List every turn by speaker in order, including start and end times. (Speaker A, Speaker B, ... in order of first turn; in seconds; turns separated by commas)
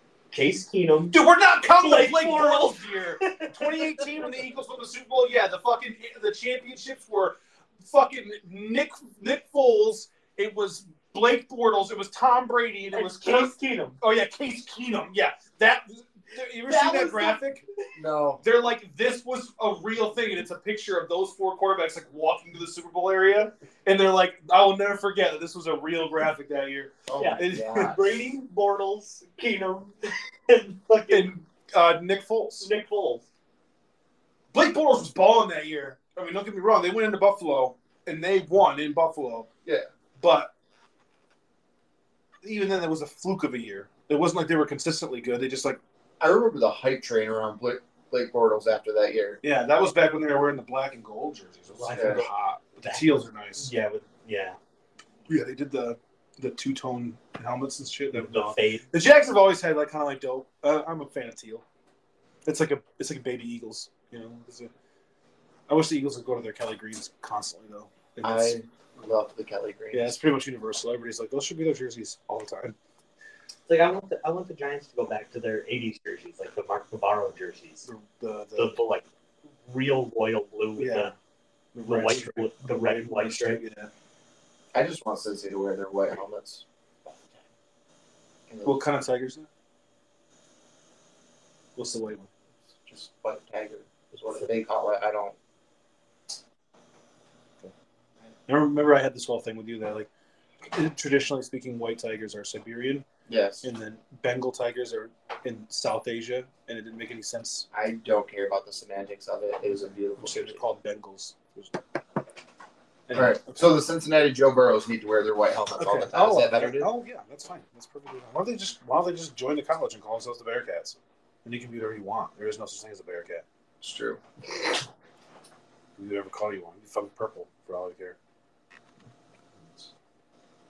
Speaker A: 0.3-1.2, Speaker B: 1.1-17.6, Speaker A: 1.8-4.2, Speaker A: 12.9-14.0, Speaker A: 16.7-17.4, Speaker C: 17.9-18.4, Speaker B: 18.4-27.9, Speaker C: 27.1-28.1, Speaker A: 27.2-29.9, Speaker A: 30.5-31.3, Speaker B: 31.1-32.7, Speaker A: 32.6-33.2, Speaker B: 34.5-39.5, Speaker B: 40.2-40.5, Speaker B: 42.4-45.8, Speaker C: 46.2-49.4, Speaker B: 49.4-53.7, Speaker A: 51.7-54.6, Speaker C: 51.9-52.2, Speaker B: 55.3-61.6, Speaker A: 58.1-58.9, Speaker B: 62.5-64.7, Speaker B: 65.7-68.6, Speaker C: 68.2-70.2, Speaker B: 69.9-72.8, Speaker A: 73.7-77.9, Speaker B: 77.8-78.8, Speaker A: 78.6-79.1, Speaker A: 79.7-81.1, Speaker B: 80.8-81.1, Speaker B: 81.7-83.9, Speaker A: 81.8-83.6, Speaker C: 84.7-86.7, Speaker C: 88.5-88.8, Speaker B: 88.6-89.5, Speaker B: 91.8-92.3, Speaker C: 92.9-95.4, Speaker A: 94.1-94.5, Speaker B: 98.5-100.1, Speaker B: 100.7-103.0, Speaker C: 103.3-103.7, Speaker B: 103.6-107.7, Speaker C: 107.7-110.6, Speaker B: 110.2-111.8, Speaker B: 113.1-113.8, Speaker C: 113.1-116.9, Speaker B: 115.8-123.4, Speaker C: 123.8-124.2, Speaker B: 126.0-128.2